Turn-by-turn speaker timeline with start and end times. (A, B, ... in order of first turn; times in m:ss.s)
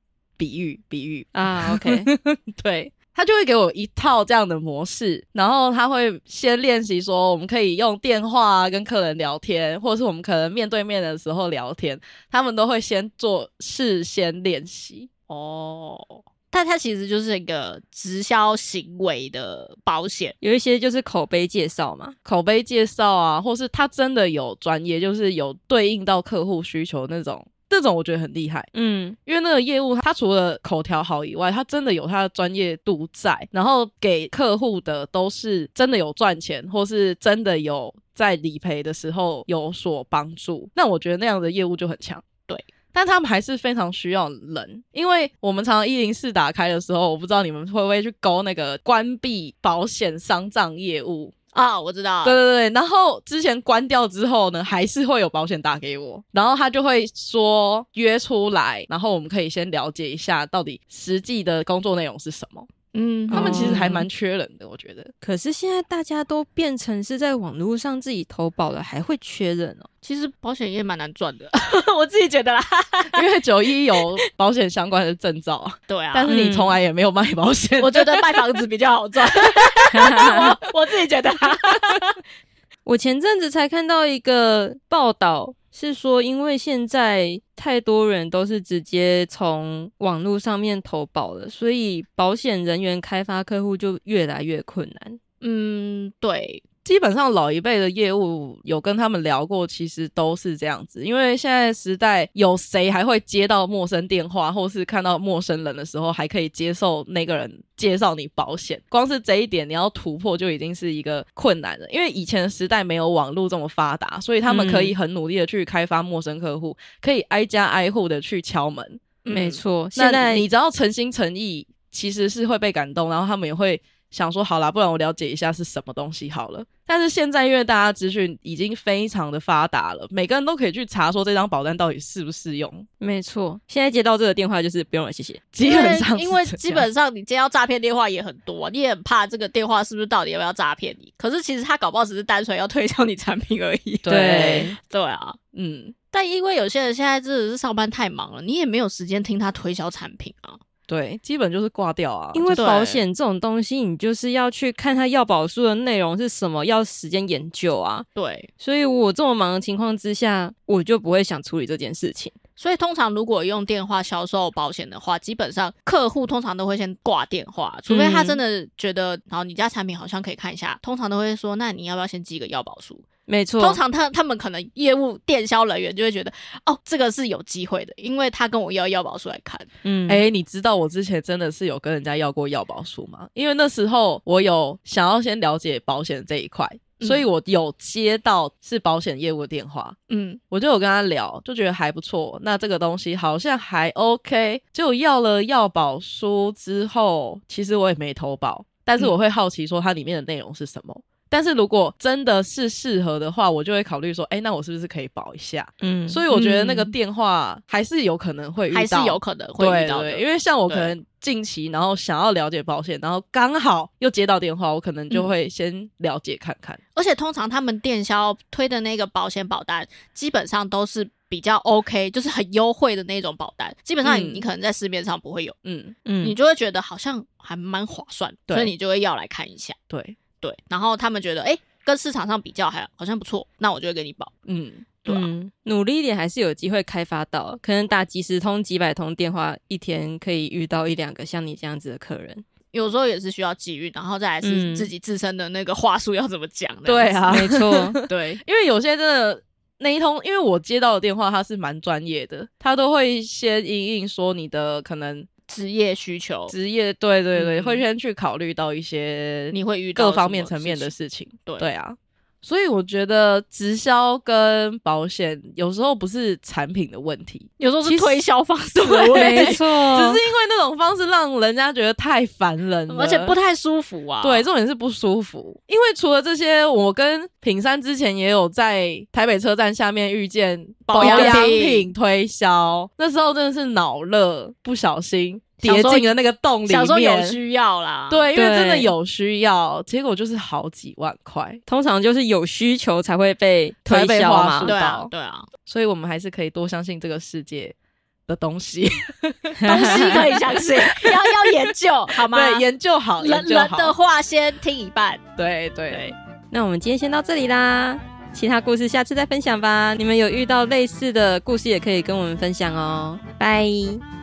0:00.4-0:15.1 A
0:01.3-0:02.1 B
0:15.3-0:20.4 C
0:20.4-0:22.1 B
0:22.2-0:28.7 A
0:28.7-0:29.2 B
0:29.3-0:42.2 A
0:42.9-0:51.3 A
0:51.5-0:52.4 C
0:52.2-1:02.7 A
1:02.9-1:03.8 C
1:03.3-1:04.1 B
1:03.3-1:05.1 A
1:05.2-1:09.9 B
1:10.0-1:13.3 C
1:13.1-1:18.6 A
1:15.9-1:16.3 C
1:16.3-1:16.8 B
1:17.8-1:22.2 C
1:19.5-1:20.1 A
1:19.9-1:20.4 B
1:22.9-1:35.2 B
1:35.4-1:36.6 C
1:36.8-1:59.0 A
1:54.5-1:55.0 B
1:59.2-1:59.6 C
1:59.3-2:00.4 B
2:00.0-2:12.9 A
2:13.0-2:15.4 B
2:15.5-2:16.9 A
2:15.6-2:25.4 C
2:24.0-2:24.7 A
2:24.1-2:24.8 B
2:25.5-2:26.0 A
2:26.1-2:30.6 C
2:30.9-2:32.7 A
2:32.3-2:38.1 B
2:32.6-2:33.0 C
2:38.1-2:38.5 C
2:38.6-2:42.4 B
2:42.6-2:53.1 C
2:47.9-2:48.4 B
2:53.3-2:53.8 B
2:53.6-2:59.7 C
2:59.8-3:00.2 B
3:00.1-3:10.0 A
3:07.0-3:07.2 C
3:10.1-3:10.4 C
3:10.5-3:36.8 A
3:25.8-3:26.3 B
3:26.3-3:26.9 C
3:28.7-3:30.9 C
3:37.0-3:45.6 C
3:44.0-3:44.4 A
3:45.6-3:46.0 A
3:46.1-3:46.4 B
3:46.2-3:49.8 C
3:49.9-3:50.2 A
3:50.4-3:54.3 C
3:54.5-3:54.9 A
3:55.0-3:55.3 C
3:55.1-4:02.4 B
4:02.7-4:07.6 C
4:04.4-4:04.9 B
4:06.9-4:15.3 A
4:07.3-4:08.0 B
4:08.1-4:08.4 C
4:15.5-4:16.5 C
4:16.5-4:28.2 A
4:17.4-4:17.8 C
4:19.5-4:20.9 C
4:27.6-4:29.6 C
4:28.8-4:33.4 A
4:29.1-4:30.2 B
4:32.9-4:34.5 C
4:34.2-4:47.4 A
4:40.9-4:41.9 C
4:41.0-4:41.5 B
4:45.6-4:46.1 C
4:46.6-4:48.3 C
4:48.1-4:51.6 A
4:48.4-4:48.9 B
4:51.7-4:54.7 B
4:53.9-4:55.1 A
4:54.6-4:55.5 C
4:55.6-4:57.8 A
4:58.3-5:01.6 A
4:59.6-5:00.2 B
4:59.6-5:02.6 C
5:02.1-5:04.0 A
5:03.2-5:05.3 C
5:05.4-5:06.1 A
5:05.9-5:06.1 C
5:06.5-5:14.0 B